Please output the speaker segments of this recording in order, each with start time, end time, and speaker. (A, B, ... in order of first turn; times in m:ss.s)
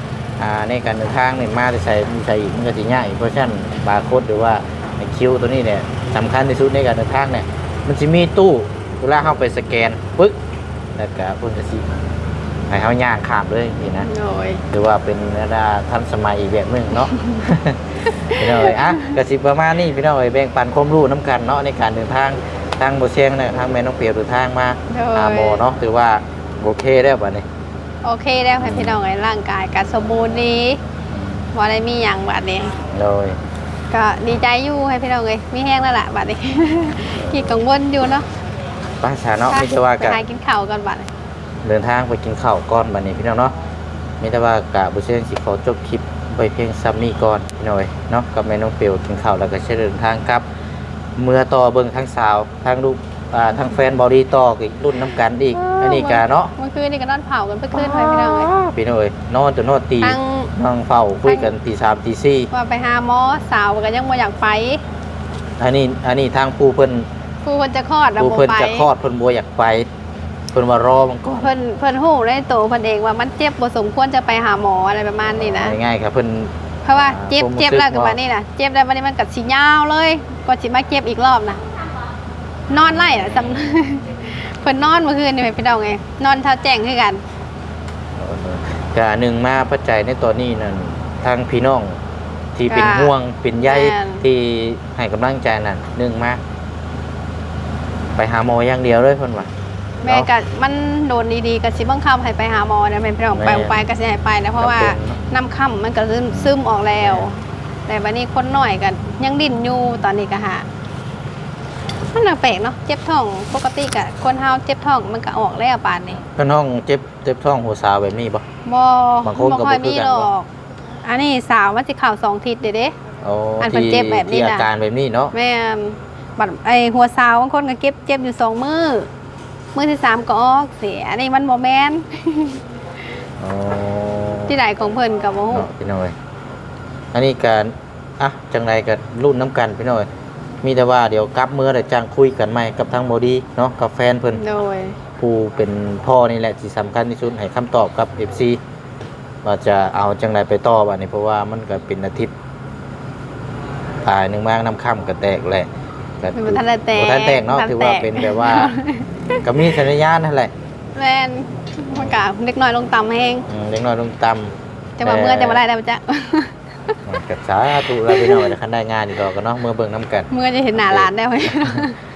0:00.4-0:10.4 A
0:11.0-0:11.9 A
0:12.7-0:14.1 A
0:14.0-0:14.6 B
0:14.7-0:17.8 A
0:17.1-0:17.4 B
0:18.1-0:19.2 B
0:18.3-0:27.5 A
0:24.9-0:25.6 B
0:28.0-0:30.8 B
0:28.6-0:29.0 A
0:31.1-0:31.5 A
0:31.5-0:32.8 B
0:32.9-0:33.4 A
0:33.9-0:38.3 B
0:37.0-0:37.6 A
0:39.0-0:40.2 A
0:39.5-0:41.1 B
0:41.6-0:43.5 A
0:44.2-0:50.4 A
0:51.2-0:56.5 A
0:55.0-0:58.5 B
0:57.7-1:02.5 A
1:00.0-1:00.5 B
1:01.2-1:01.5 B
1:02.5-1:04.8 B
1:05.6-1:07.1 A
1:07.4-1:08.9 B
1:08.2-1:09.9 A
1:10.5-1:11.5 A
1:11.4-1:15.8 B
1:15.3-1:18.2 A
1:16.8-1:21.6 B
1:22.7-1:27.2 B
1:22.8-1:24.0 A
1:28.2-1:32.0 A
1:32.6-1:36.4 A
1:32.7-1:34.2 B
1:38.2-1:39.5 A
1:40.0-1:50.7 B
1:43.3-1:43.8 A
1:44.6-1:45.2 A
1:46.3-1:47.3 A
1:52.1-1:56.2 B
1:56.4-1:58.4 A
1:58.7-2:00.5 B
1:59.2-2:00.3 A
2:01.1-2:03.0 B
2:03.2-2:05.3 A
2:03.6-2:04.7 B
2:05.3-2:09.1 B
2:09.8-2:12.6 B
2:13.4-2:14.5 A
2:14.5-2:15.7 B
2:15.5-2:16.2 A
2:17.1-2:20.1 A
2:20.6-2:24.4 A
2:24.3-2:25.0 B
2:25.2-2:28.6 A
2:29.4-2:32.3 A
2:34.0-2:35.7 A
2:36.2-2:38.8 A
2:36.3-2:39.8 B
2:39.4-2:40.5 A
2:41.0-2:43.5 B
2:43.5-2:45.6 A
2:45.0-2:47.0 B
2:47.0-2:51.9 A
2:48.0-2:48.5 B
2:50.3-2:52.0 B